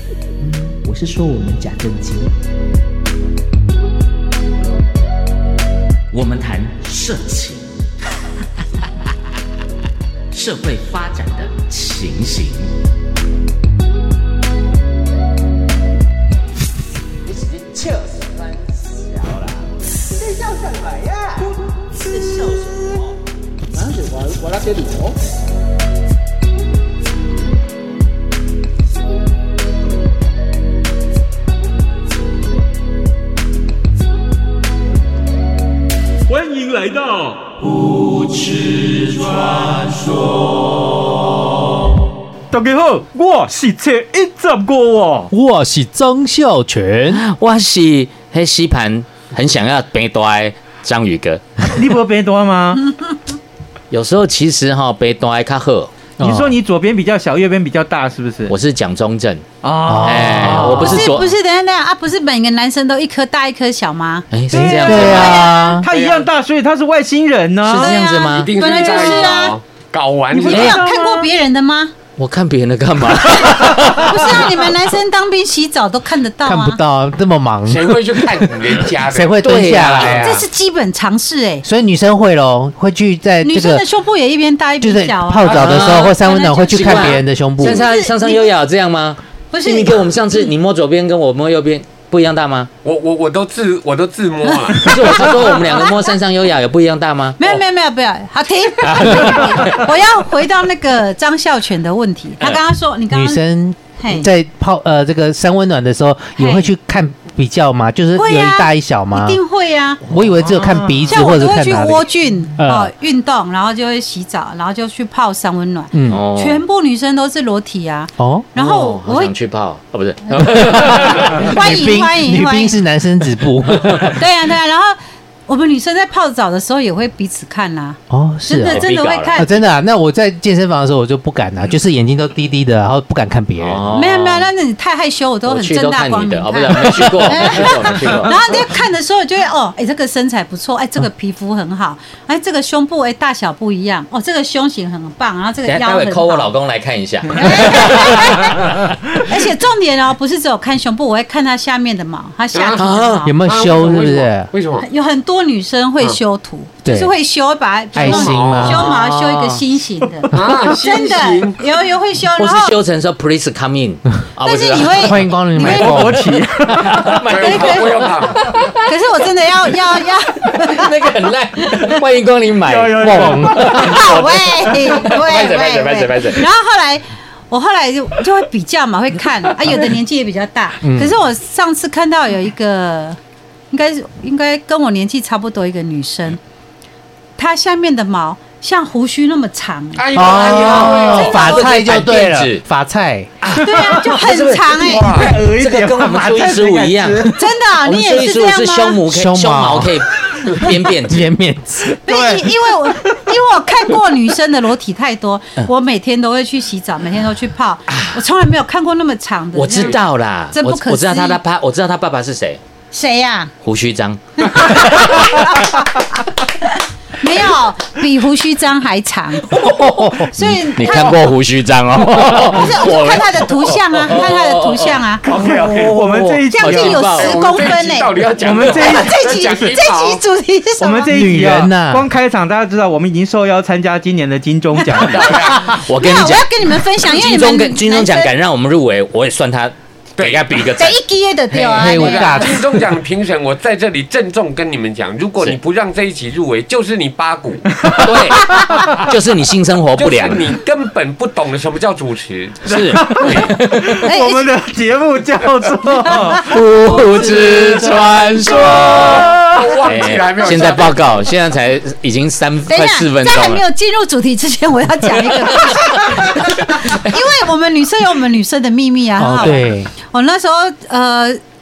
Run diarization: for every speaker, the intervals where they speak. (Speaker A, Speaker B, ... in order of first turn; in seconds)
Speaker A: 0.8-2.3, 23.9-25.0
Speaker B: 6.1-7.6, 10.3-12.9, 17.2-18.4, 19.2-19.6, 22.0-22.8, 47.1-51.5, 53.9-55.9, 58.5-59.4, 60.0-61.3, 64.3-65.4, 67.7-69.3, 70.5-70.8, 72.2-74.7, 79.4-80.3, 85.5-86.2, 86.7-92.7, 94.8-97.5, 98.8-99.9, 116.1-116.6, 118.5-121.5, 123.8-124.1, 128.7-129.5, 133.6-134.5, 135.4-138.4, 145.7-148.7, 152.8-153.2, 158.7-159.6, 162.4-165.3, 166.9-168.9, 170.4-176.4, 190.2-192.6, 193.4-201.3, 207.9-208.2, 209.5-212.6, 213.6-215.3, 220.4-225.0, 226.0-227.4, 235.6-241.0, 248.0-250.6, 252.7-254.0, 256.3-263.6, 265.4-265.7
Speaker C: 36.3-37.6, 42.5-45.3, 51.7-52.9, 56.2-58.5, 59.6-61.1, 64.5-65.3, 65.8-67.9, 70.3-71.3, 110.4-111.1, 165.6-167.2, 172.6-174.1, 193.7-194.0, 195.1-197.4, 202.1-203.3, 225.3-226.9, 228.4-229.7, 230.8-235.4, 247.8-248.9, 252.8-259.5
Speaker D: 45.3-47.2, 56.2-56.5, 59.9-60.9, 64.5-65.9, 76.4-78.4, 78.9-80.4, 81.6-83.8, 84.8-87.8, 103.1-109.4, 110.1-112.9, 115.9-116.2, 118.2-118.5, 120.4-124.2, 128.1-133.8, 153.2-154.5, 156.8-157.1, 157.9-158.9, 165.0-166.9, 173.1-173.6, 180.8-181.1, 190.1-193.3, 199.1-201.9, 219.5-220.3, 231.1-232.1, 241.7-242.6, 269.2-269.9
Speaker E: 60.7-64.3, 64.9-65.8, 67.7-69.5, 70.5-71.9, 73.3-76.8, 80.2-81.6, 83.4-88.5, 89.5-90.0, 94.5-96.1, 97.4-103.4, 104.0-104.3, 106.4-106.7, 108.1-110.0, 111.1-119.3, 121.4-122.8, 124.2-129.6, 133.9-146.5, 147.3-153.3, 154.8-162.7, 164.4-166.0, 167.3-168.1, 168.8-170.9, 173.7-183.2, 183.7-186.4, 187.4-191.7, 193.6-195.3, 197.3-199.0, 202.1-210.0, 210.5-211.4, 212.9-213.5, 214.4-221.3, 222.3-225.2, 226.4-231.2, 234.8-238.3, 240.8-242.5, 254.0-254.5, 262.7-271.4
Speaker F: 65.9-66.3, 68.2-70.8, 77.7-80.4, 92.8-95.5, 152.5-152.8, 153.4-154.9, 158.0-158.9, 160.3-161.7, 167.2-168.5, 189.9-191.6, 194.8-195.3, 225.2-230.2, 235.0-235.8, 240.2-240.4, 241.8-247.9, 250.0-253.6, 258.6-261.2